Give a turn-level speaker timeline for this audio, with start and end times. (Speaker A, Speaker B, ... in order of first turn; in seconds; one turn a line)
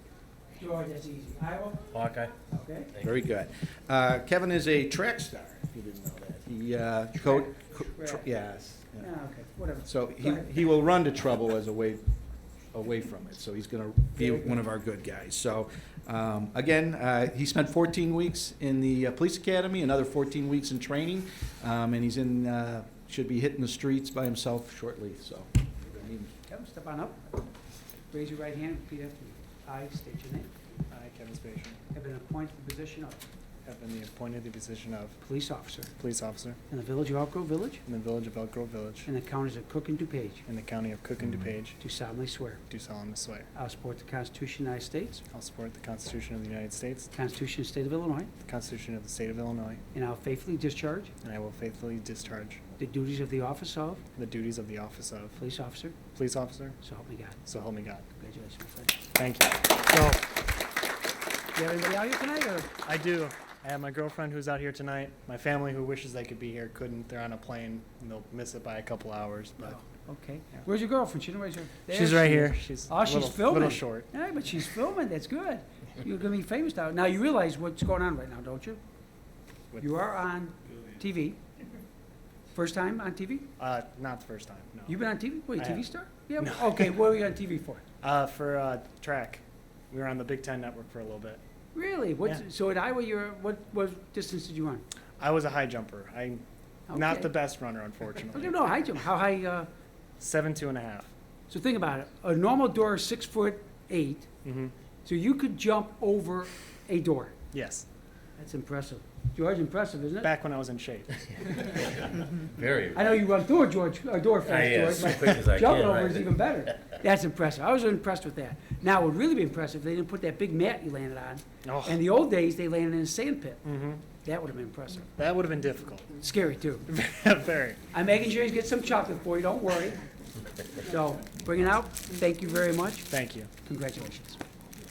Speaker A: 0.6-3.0
Speaker B: 1.9-2.3
Speaker C: 3.0-9.1
Speaker A: 7.2-8.2
Speaker A: 9.0-10.4
Speaker C: 9.9-12.0
Speaker C: 12.7-26.3
Speaker A: 14.2-14.6
Speaker A: 26.5-27.3
Speaker A: 28.1-30.5
Speaker D: 30.9-31.8
Speaker A: 31.9-33.2
Speaker D: 33.6-35.2
Speaker A: 35.2-35.9
Speaker D: 36.0-36.6
Speaker A: 36.7-37.8
Speaker D: 37.9-39.1
Speaker A: 39.1-40.4
Speaker D: 40.5-41.8
Speaker A: 41.8-42.6
Speaker D: 42.7-43.5
Speaker A: 43.5-45.2
Speaker D: 45.3-47.1
Speaker A: 47.1-48.3
Speaker D: 48.4-49.8
Speaker A: 49.9-51.1
Speaker D: 51.2-52.7
Speaker A: 52.8-54.0
Speaker D: 54.1-55.4
Speaker A: 55.4-56.1
Speaker D: 56.1-56.8
Speaker A: 56.8-57.4
Speaker D: 57.5-58.1
Speaker A: 58.1-59.0
Speaker D: 59.1-60.3
Speaker A: 61.5-62.8
Speaker D: 62.8-69.8
Speaker A: 69.7-78.8
Speaker D: 71.9-74.1
Speaker A: 79.8-81.4
Speaker A: 82.5-83.5
Speaker D: 83.6-85.0
Speaker A: 84.9-87.8
Speaker D: 85.6-85.9
Speaker D: 86.4-86.9
Speaker D: 88.0-91.4
Speaker A: 91.7-94.8
Speaker D: 95.2-98.6
Speaker A: 96.9-97.3
Speaker A: 98.3-99.7
Speaker D: 100.2-101.1
Speaker A: 101.5-104.3
Speaker D: 104.4-104.7
Speaker A: 105.0-107.4
Speaker D: 107.5-107.8
Speaker A: 108.4-110.3
Speaker D: 110.2-111.7
Speaker B: 112.5-113.0
Speaker A: 112.9-123.6
Speaker B: 114.5-116.4
Speaker D: 115.0-115.4
Speaker D: 121.6-122.0
Speaker D: 123.6-124.1
Speaker A: 124.1-125.1
Speaker D: 125.2-126.1
Speaker A: 126.1-126.8
Speaker D: 126.9-127.9
Speaker A: 127.9-130.0
Speaker A: 130.8-134.4
Speaker D: 133.1-133.6